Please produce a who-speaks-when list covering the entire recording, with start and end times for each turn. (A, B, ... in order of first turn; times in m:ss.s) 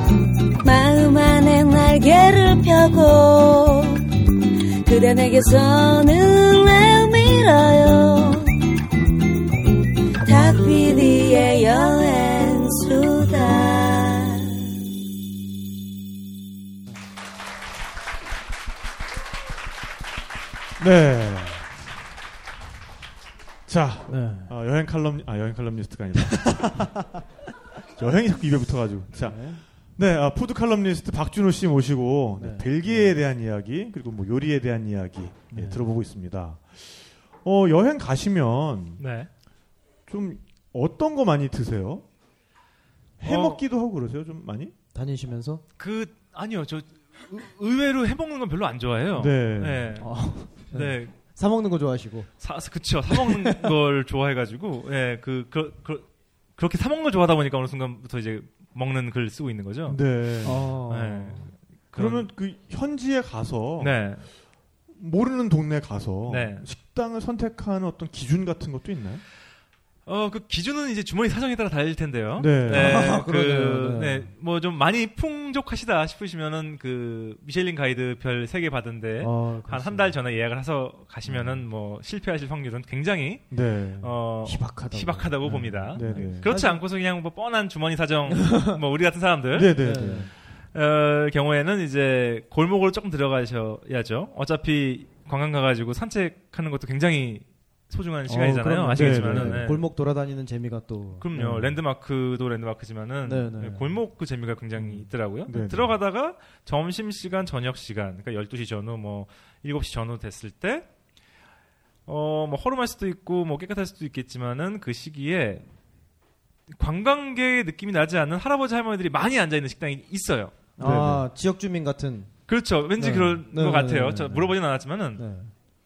0:00.6-0:04.0 A
0:04.8-0:08.6 A
0:10.2-0:14.6 A
0:20.8-0:21.7 B
0:23.7-0:27.0 B
0:24.1-0:24.5 C
0:28.0-0:39.0 B
0:29.2-0:29.6 C
0:32.4-0:33.1 C
0:35.5-0:35.8 C
0:39.0-0:39.3 D
0:40.1-0:42.0 B
0:43.2-0:44.7 B
0:43.2-0:43.6 D
0:44.9-0:45.6 C
0:45.8-0:51.1 D
0:49.2-0:50.0 B
0:50.0-0:52.3 C
0:52.4-1:00.0 D
0:53.1-0:53.7 C
0:59.9-1:00.7 B
1:00.4-1:01.5 C
1:00.9-1:02.3 D
1:02.0-1:04.0 B
1:03.8-1:04.2 D
1:05.0-1:09.2 B
1:06.3-1:06.6 D
1:10.1-1:29.7 D
1:12.4-1:13.1 B
1:12.7-1:14.3 C
1:19.2-1:20.2 C
1:21.3-1:21.6 B
1:23.5-1:24.7 B
1:24.4-1:26.8 C
1:25.4-1:26.5 B
1:29.5-1:30.3 B
1:29.8-1:30.3 C
1:30.7-1:39.8 D
1:38.3-1:41.2 C
1:38.9-1:39.7 B
1:41.2-1:50.9 D
1:41.3-1:41.8 B
1:43.3-1:44.0 C
1:44.8-1:46.0 B
1:52.1-1:55.6 D
1:56.7-2:00.6 D
2:00.8-2:02.3 C
2:00.8-2:01.2 B
2:02.5-2:05.2 D
2:03.0-2:04.6 C
2:05.2-2:05.5 C